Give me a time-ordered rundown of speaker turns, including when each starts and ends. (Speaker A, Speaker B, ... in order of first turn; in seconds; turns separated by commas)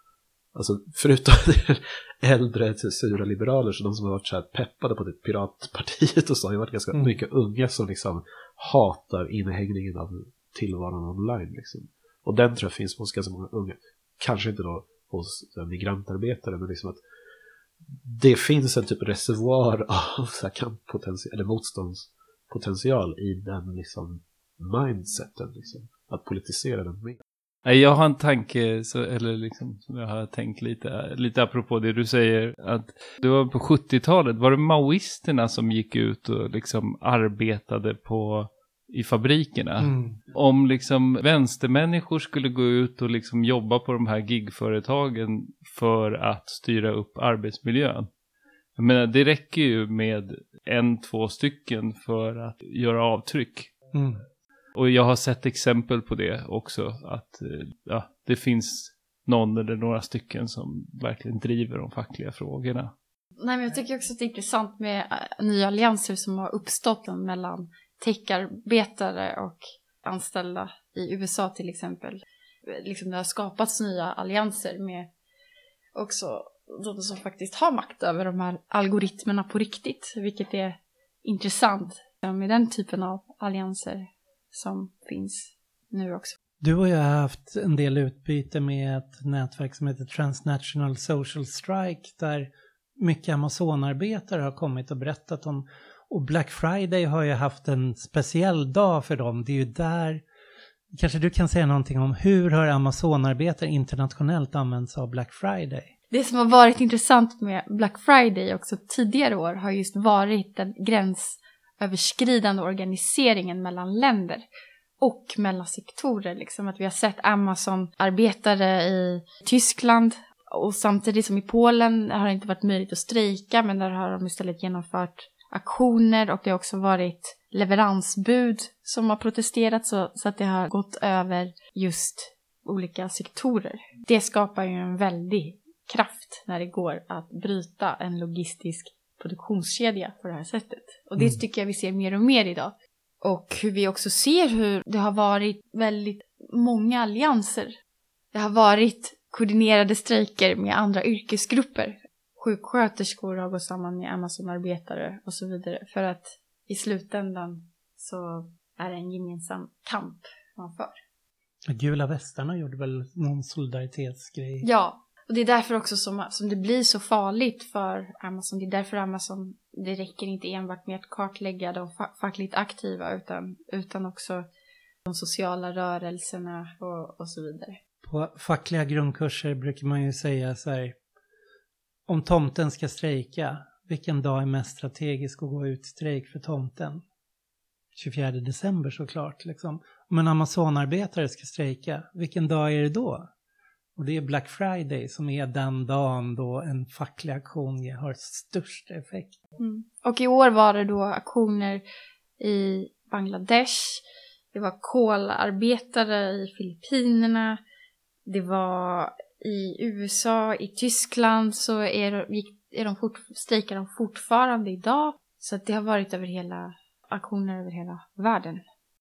Speaker A: 0.5-17.0, Speaker A: 18.0-27.2, Speaker B: 27.6-48.1, Speaker C: 39.8-40.2, Speaker B: 48.8-53.7, Speaker C: 53.9-54.2, Speaker B: 54.8-62.9, Speaker D: 63.4-75.1, Speaker D: 76.0-86.4, Speaker C: 86.6-100.2, Speaker C: 100.9-105.9, Speaker D: 106.1-114.4, Speaker D: 115.0-147.7, Speaker D: 148.3-161.0, Speaker C: 161.7-164.7, Speaker D: 164.6-174.4, Speaker D: 175.1-177.8, Speaker C: 178.0-181.0, Speaker C: 182.1-187.0, Speaker C: 187.9-193.3, Speaker C: 194.0-199.4, Speaker D: 199.6-201.8, Speaker D: 202.4-207.6, Speaker D: 208.3-218.6